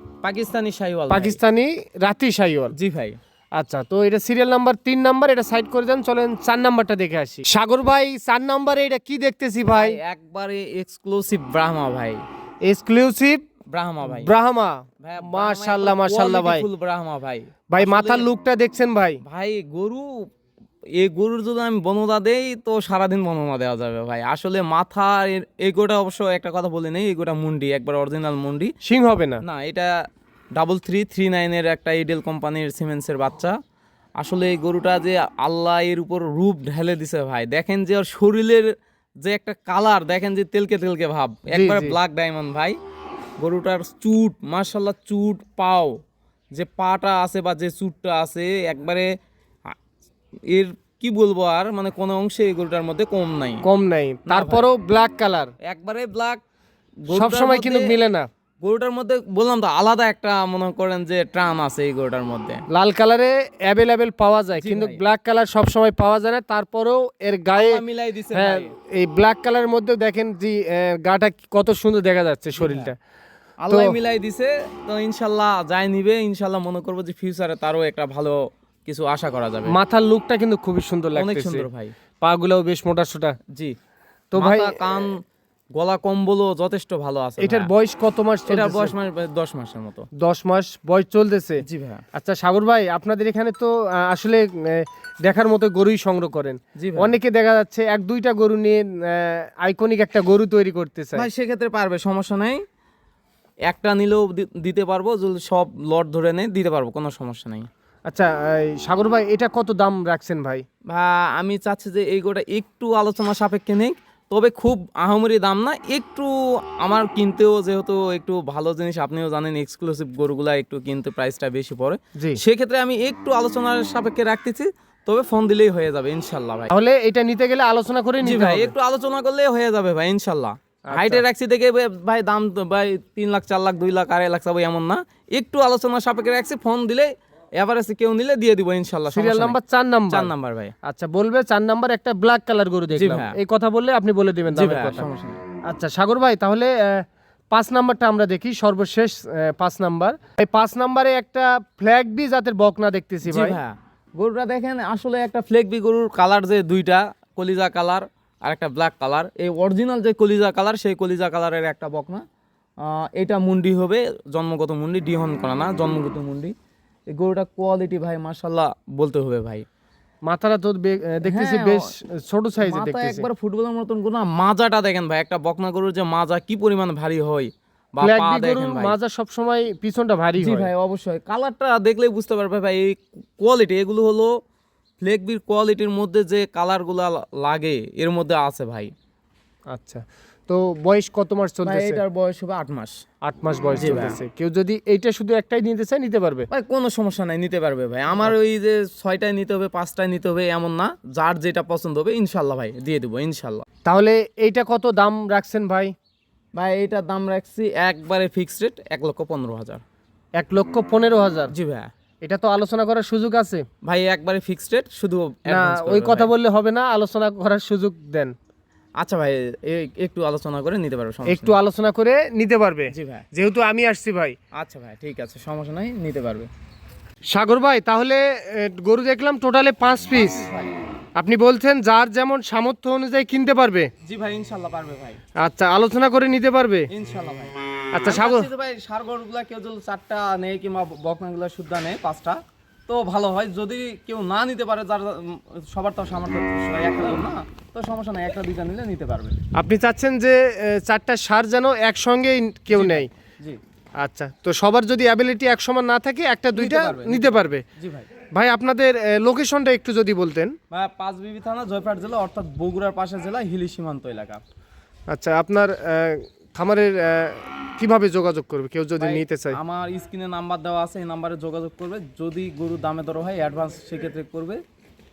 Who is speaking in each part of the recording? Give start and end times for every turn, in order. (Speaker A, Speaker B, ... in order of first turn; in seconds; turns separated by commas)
Speaker A: 0.2-1.4, Speaker B: 1.1-2.7, Speaker A: 2.7-3.2, Speaker B: 3.5-10.0, Speaker A: 9.7-12.2, Speaker B: 12.6-13.4, Speaker A: 13.7-14.3, Speaker B: 14.0-16.6, Speaker A: 15.0-18.2, Speaker B: 17.7-19.2, Speaker A: 19.2-20.3, Speaker A: 20.9-28.7, Speaker B: 28.8-29.4, Speaker A: 29.4-29.9, Speaker A: 30.5-33.5, Speaker A: 34.2-38.7, Speaker A: 39.2-42.8, Speaker B: 41.5-42.0, Speaker A: 43.4-46.0, Speaker A: 46.5-49.1, Speaker A: 50.5-53.6, Speaker B: 53.6-55.5, Speaker A: 54.3-54.7, Speaker A: 55.6-56.4, Speaker A: 57.0-58.0, Speaker B: 57.1-58.3, Speaker A: 58.6-62.6, Speaker B: 62.7-67.8, Speaker A: 64.6-65.0, Speaker A: 67.5-68.7, Speaker B: 68.3-73.0, Speaker A: 72.5-72.9, Speaker A: 73.6-79.8, Speaker B: 73.7-73.9, Speaker B: 79.7-81.7, Speaker A: 81.1-82.0, Speaker B: 82.2-83.4, Speaker B: 84.3-85.1, Speaker A: 84.3-85.2, Speaker A: 85.7-87.7, Speaker B: 87.4-88.9, Speaker A: 88.5-90.1, Speaker B: 90.2-101.3, Speaker A: 91.6-92.0, Speaker A: 96.8-97.2, Speaker A: 101.2-102.6, Speaker A: 103.7-107.7, Speaker B: 108.1-110.6, Speaker A: 110.9-126.7, Speaker B: 122.2-122.4, Speaker B: 126.7-128.7, Speaker A: 128.2-139.6, Speaker B: 130.9-131.2, Speaker B: 139.1-140.3, Speaker A: 140.1-140.7, Speaker B: 140.8-145.0, Speaker A: 142.9-143.3, Speaker A: 144.5-145.4, Speaker B: 145.6-153.6, Speaker A: 153.2-162.2, Speaker A: 162.8-166.5, Speaker A: 167.1-169.7, Speaker B: 170.2-173.3, Speaker A: 171.2-171.9, Speaker A: 172.6-178.9, Speaker B: 178.0-180.7, Speaker A: 180.4-184.3, Speaker A: 185.0-188.9, Speaker B: 189.7-192.0, Speaker A: 191.6-193.0, Speaker B: 193.2-196.5, Speaker A: 193.8-194.2, Speaker A: 196.5-203.6, Speaker B: 203.8-205.9, Speaker A: 206.5-209.8, Speaker B: 210.4-211.5, Speaker A: 211.5-211.9, Speaker B: 212.2-213.6, Speaker A: 213.8-216.3, Speaker B: 215.5-218.3, Speaker A: 219.0-221.5, Speaker B: 221.2-224.3, Speaker A: 222.9-223.2, Speaker A: 224.6-226.5, Speaker B: 227.3-230.4, Speaker A: 230.1-230.7, Speaker B: 231.2-233.9, Speaker A: 234.0-235.2, Speaker B: 235.4-236.9, Speaker A: 236.9-237.5, Speaker B: 237.9-238.5, Speaker A: 238.0-249.4, Speaker B: 249.5-253.1, Speaker A: 252.7-253.6, Speaker B: 254.0-257.6, Speaker A: 256.5-258.1, Speaker B: 258.3-260.5, Speaker A: 260.7-264.4, Speaker B: 265.1-269.6, Speaker A: 269.0-274.6